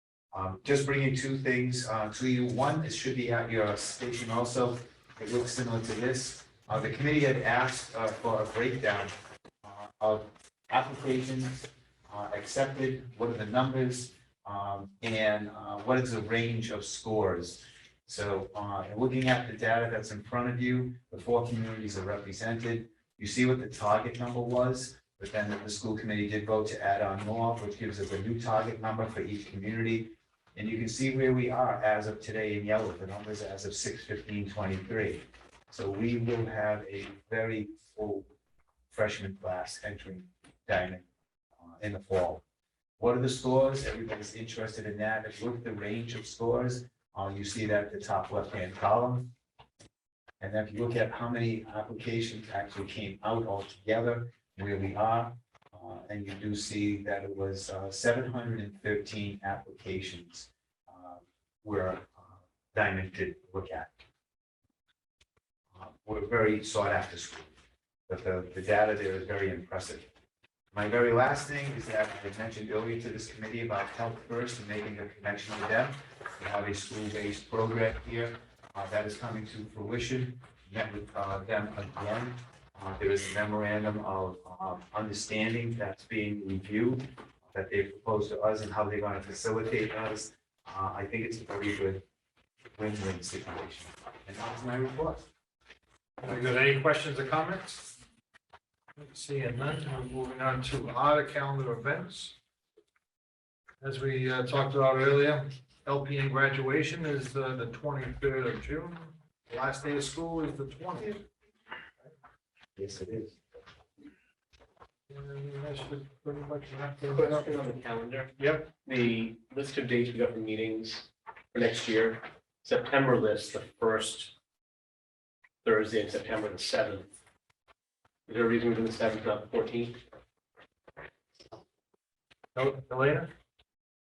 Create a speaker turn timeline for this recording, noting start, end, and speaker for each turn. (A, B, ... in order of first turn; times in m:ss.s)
0:00.3-0:38.3 A
0:38.9-0:41.0 A
0:41.6-0:42.4 A
0:43.0-0:49.3 A
0:50.4-1:04.0 A
1:05.7-1:07.5 A
1:08.1-1:10.1 A
1:10.7-1:32.0 A
1:32.8-1:35.3 A
1:36.2-1:37.9 B
1:39.0-1:42.3 B
1:43.8-1:51.2 B
1:52.8-1:53.4 A
1:55.1-1:57.5 B
1:57.0-2:04.3 C
1:58.4-1:58.7 B
2:05.6-2:07.1 C
2:08.3-2:10.0 C
2:12.6-2:13.3 B